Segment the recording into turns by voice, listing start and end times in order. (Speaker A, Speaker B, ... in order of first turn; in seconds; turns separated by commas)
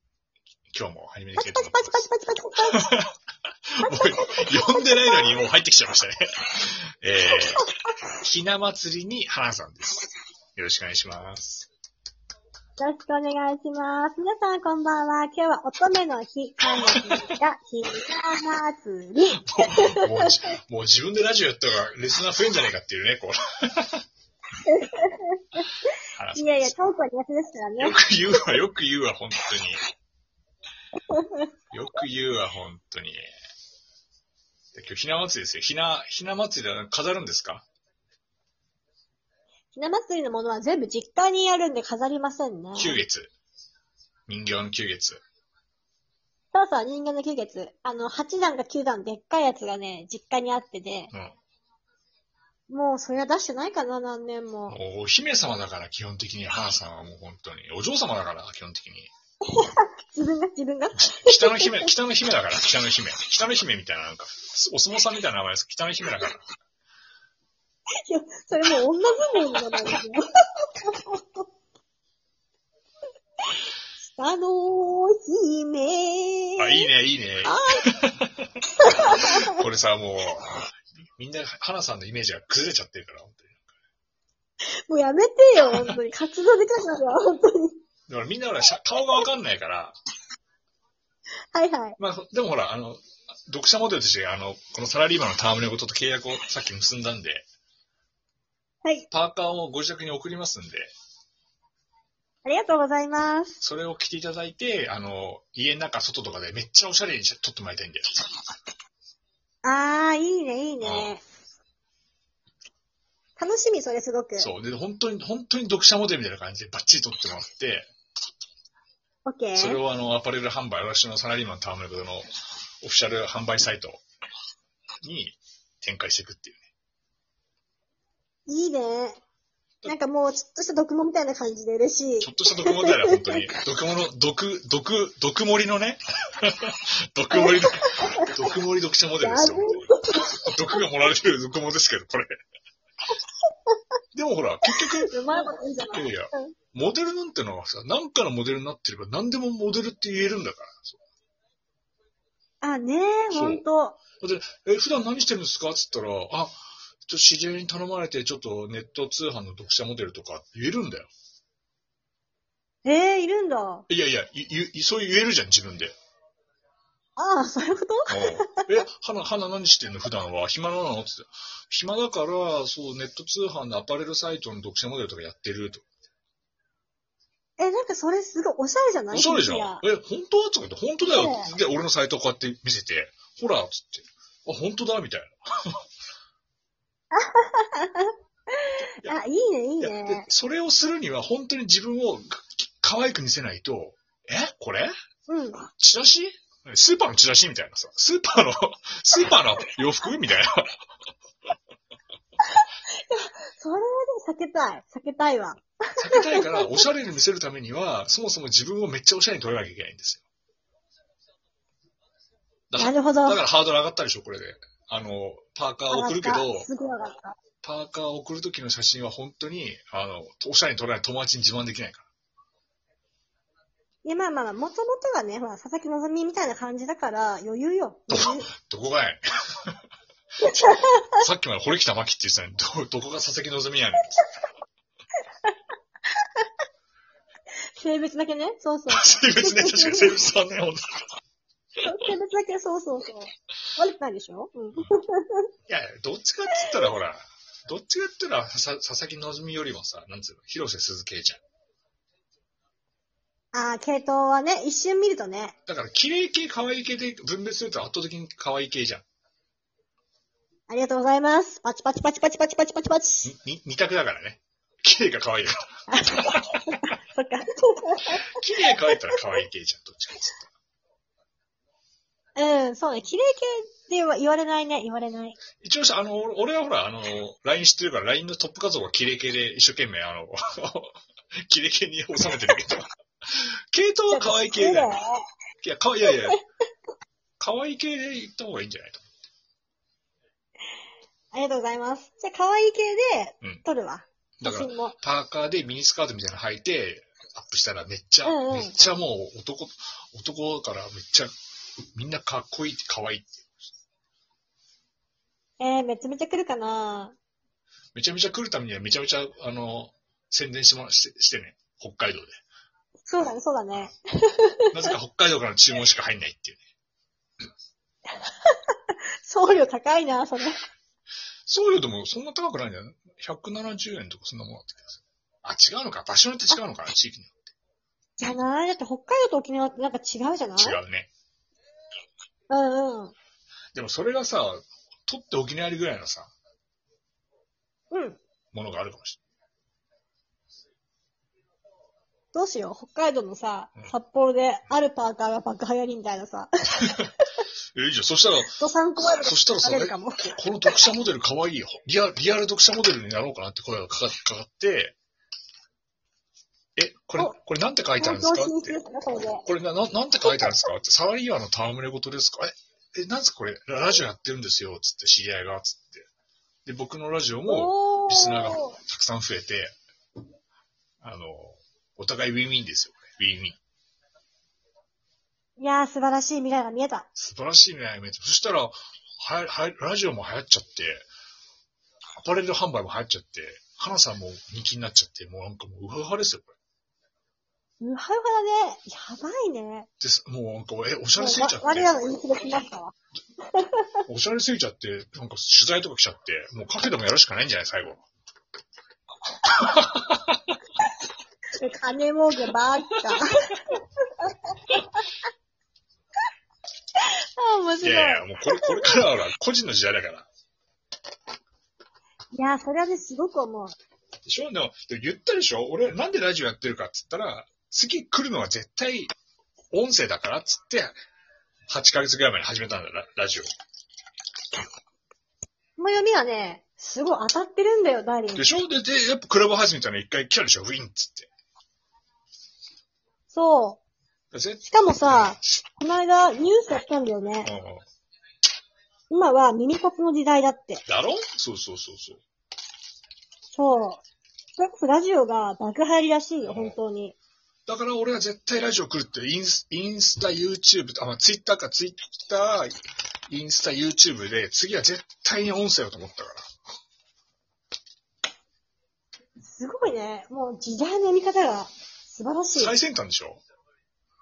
Speaker A: 0.7-2.0, Speaker B: 1.4-3.0, Speaker A: 2.7-3.1, Speaker A: 3.7-7.6, Speaker B: 3.8-5.3, Speaker B: 7.2-7.7, Speaker A: 8.2-10.0, Speaker A: 10.6-11.7, Speaker B: 12.8-20.3, Speaker A: 16.9-17.3, Speaker A: 19.3-24.0, Speaker B: 24.6-25.7, Speaker A: 26.1-26.7, Speaker B: 26.3-28.0, Speaker A: 27.8-29.8, Speaker B: 31.1-31.4, Speaker A: 31.7-33.2, Speaker A: 34.7-37.6, Speaker B: 39.7-43.0, Speaker A: 42.8-43.3, Speaker A: 44.3-45.2, Speaker B: 46.5-51.1, Speaker A: 51.1-51.4, Speaker B: 52.7-54.8, Speaker A: 54.7-59.1, Speaker B: 59.5-61.9, Speaker A: 60.9-66.4, Speaker B: 68.0-71.4, Speaker A: 69.4-69.9, Speaker B: 74.0-76.8, Speaker A: 76.6-83.6, Speaker B: 77.4-77.8, Speaker B: 78.8-79.5, Speaker B: 84.6-87.8, Speaker A: 88.1-89.9, Speaker B: 91.5-92.0, Speaker A: 92.0-97.5, Speaker A: 99.1-100.9, Speaker B: 102.4-103.6, Speaker A: 103.6-108.2, Speaker B: 109.6-111.2, Speaker A: 110.8-111.1, Speaker B: 113.4-114.5, Speaker A: 114.4-117.9, Speaker B: 119.2-119.8, Speaker A: 119.5-122.2, Speaker A: 122.8-124.0, Speaker A: 125.0-126.6, Speaker B: 128.5-129.2, Speaker B: 129.8-133.4, Speaker A: 132.2-142.3, Speaker B: 137.3-138.3, Speaker B: 139.2-140.5, Speaker A: 144.1-145.1, Speaker B: 144.7-146.5, Speaker A: 145.9-151.0, Speaker B: 152.6-154.0, Speaker A: 153.3-153.6, Speaker A: 154.2-161.1, Speaker B: 162.8-163.9, Speaker A: 163.9-165.9, Speaker B: 167.2-168.6, Speaker A: 168.1-175.8, Speaker B: 177.6-179.8, Speaker A: 179.1-185.7, Speaker B: 181.0-181.5, Speaker B: 187.1-190.3, Speaker A: 189.8-194.9, Speaker B: 195.3-195.7, Speaker A: 195.8-200.7, Speaker B: 202.5-206.8, Speaker A: 206.0-210.2, Speaker A: 212.7-216.7, Speaker B: 212.8-213.4, Speaker B: 215.9-217.3, Speaker A: 217.6-222.1, Speaker B: 224.0-228.5, Speaker A: 228.1-229.8, Speaker B: 230.4-231.1, Speaker A: 230.6-234.2, Speaker B: 237.8-240.2, Speaker A: 238.9-240.9, Speaker B: 241.8-245.5, Speaker A: 245.7-251.4, Speaker B: 253.5-255.5, Speaker A: 255.7-259.0, Speaker B: 260.7-263.3, Speaker A: 263.2-265.7, Speaker B: 265.9-268.2, Speaker A: 268.3-270.4, Speaker B: 272.4-275.4, Speaker A: 275.6-284.9, Speaker B: 284.1-285.2, Speaker A: 285.6-286.4, Speaker A: 287.4-289.0, Speaker B: 291.3-294.9, Speaker A: 294.4-301.3, Speaker B: 298.2-298.8, Speaker A: 301.9-303.4, Speaker B: 305.6-307.1, Speaker A: 307.9-312.3, Speaker B: 313.1-314.9, Speaker A: 314.7-316.6, Speaker B: 318.3-320.6, Speaker A: 321.4-327.4, Speaker B: 328.2-330.8, Speaker A: 330.6-331.1, Speaker B: 332.5-333.1, Speaker A: 333.7-336.3, Speaker B: 337.9-338.2, Speaker A: 338.5-339.2, Speaker B: 342.3-347.2, Speaker A: 347.7-348.5, Speaker B: 348.5-350.9, Speaker A: 349.2-354.9, Speaker A: 356.8-358.7, Speaker B: 358.0-359.4, Speaker A: 359.4-366.1, Speaker B: 360.2-360.7, Speaker A: 366.6-369.8, Speaker B: 367.5-368.8, Speaker A: 371.0-373.6, Speaker B: 375.6-377.1, Speaker A: 377.1-381.1, Speaker A: 382.1-386.6, Speaker B: 387.8-389.9, Speaker A: 390.0-391.9, Speaker B: 391.2-392.9, Speaker B: 393.5-394.0, Speaker A: 394.1-398.0, Speaker A: 399.6-400.5, Speaker B: 401.6-403.6, Speaker B: 404.2-404.8, Speaker B: 407.0-409.0, Speaker A: 407.8-410.3, Speaker B: 412.3-413.7, Speaker A: 414.2-419.1, Speaker A: 419.7-420.9, Speaker A: 421.7-423.5, Speaker B: 425.8-428.5, Speaker A: 428.3-431.3, Speaker B: 433.3-433.8, Speaker A: 434.3-435.4, Speaker B: 434.6-437.5, Speaker A: 437.4-437.9, Speaker B: 439.1-440.8, Speaker A: 440.9-442.2, Speaker B: 443.5-444.0, Speaker B: 444.6-447.1, Speaker A: 446.4-446.8, Speaker A: 447.7-452.8, Speaker A: 453.3-456.4, Speaker B: 459.4-462.8, Speaker A: 462.5-463.4